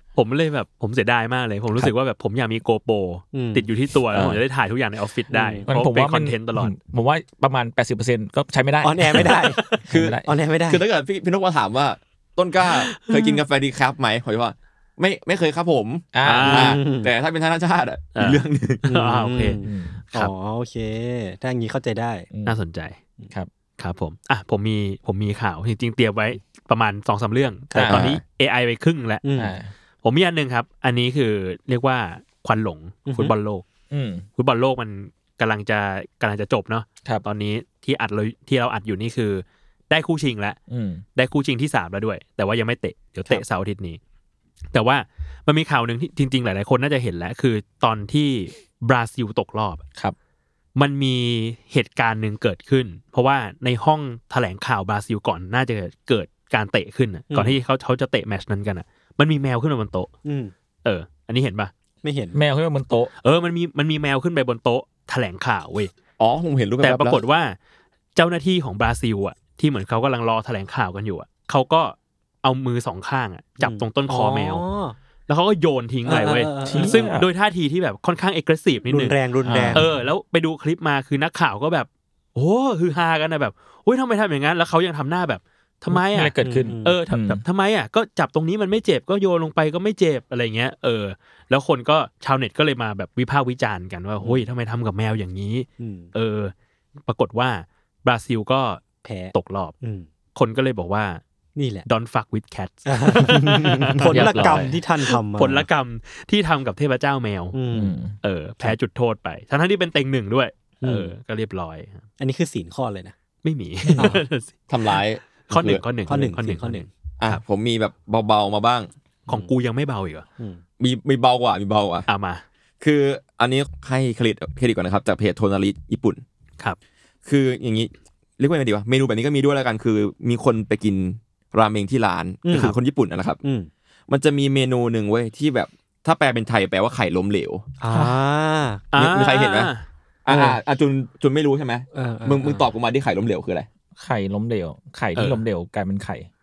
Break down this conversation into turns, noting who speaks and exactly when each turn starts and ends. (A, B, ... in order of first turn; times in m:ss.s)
0:00.2-0:06.8 A
0:03.3-0:03.7 B
0:05.3-0:05.6 B
0:05.7-0:10.3 C
0:08.8-0:10.8 B
0:09.2-0:09.8 A
0:09.9-0:18.9 D
0:12.9-0:13.4 A
0:16.1-0:16.7 C
0:16.2-0:16.8 A
0:16.5-0:17.1 B
0:18.2-0:19.6 A
0:18.9-0:22.3 B
0:19.6-0:20.0 C
0:22.3-0:22.6 C
0:22.5-0:23.0 A
0:23.8-0:29.2 A
0:27.7-0:28.2 C
0:27.9-0:28.2 D
0:29.2-0:29.6 B
0:29.4-0:29.7 C
0:30.0-0:33.6 A
0:33.1-0:33.4 B
0:33.9-0:34.2 C
0:34.4-0:40.6 A
0:40.7-0:41.0 C
0:41.2-0:44.0 A
0:44.7-0:49.8 A
0:50.8-1:00.1 A
0:57.3-0:57.6 B
1:00.2-1:00.5 B
1:00.8-1:01.7 A
1:02.0-1:02.4 B
1:02.3-1:03.1 C
1:03.2-1:05.9 A
1:06.2-1:07.2 D
1:06.8-1:07.6 A
1:08.2-1:14.6 A
1:13.6-1:15.0 B
1:15.3-1:19.2 A
1:16.1-1:17.0 B
1:16.6-1:17.3 C
1:18.9-1:19.9 B
1:19.5-1:20.0 C
1:19.7-1:36.5 A
1:25.9-1:27.4 C
1:26.4-1:27.0 B
1:35.8-1:36.1 B
1:37.0-1:38.8 A
1:39.0-1:40.1 B
1:39.3-1:39.8 A
1:40.4-1:41.2 A
1:41.6-1:41.9 B
1:41.9-1:47.6 A
1:42.9-1:45.7 B
1:43.5-1:44.1 D
1:44.1-1:44.7 C
1:47.5-1:48.0 B
1:47.7-1:48.2 C
1:48.2-1:52.0 A
1:50.8-1:51.1 B
1:52.2-1:53.1 B
1:53.4-1:57.4 A
1:54.0-1:54.2 B
1:54.7-1:55.8 D
1:56.1-1:56.9 B
1:57.2-1:58.9 D
1:59.3-2:00.2 A
2:00.8-2:02.1 D
2:02.1-2:02.4 A
2:02.8-2:06.2 D
2:07.3-2:13.4 D
2:12.4-2:12.8 B
2:13.4-2:13.7 B
2:14.1-2:17.7 D
2:17.8-2:18.8 B
2:17.9-2:18.2 C
2:18.9-2:19.8 A
2:19.0-2:19.7 D
2:20.2-2:23.7 D
2:20.3-2:20.6 B
2:21.9-2:22.7 B
2:24.0-2:26.3 C
2:25.2-2:25.4 A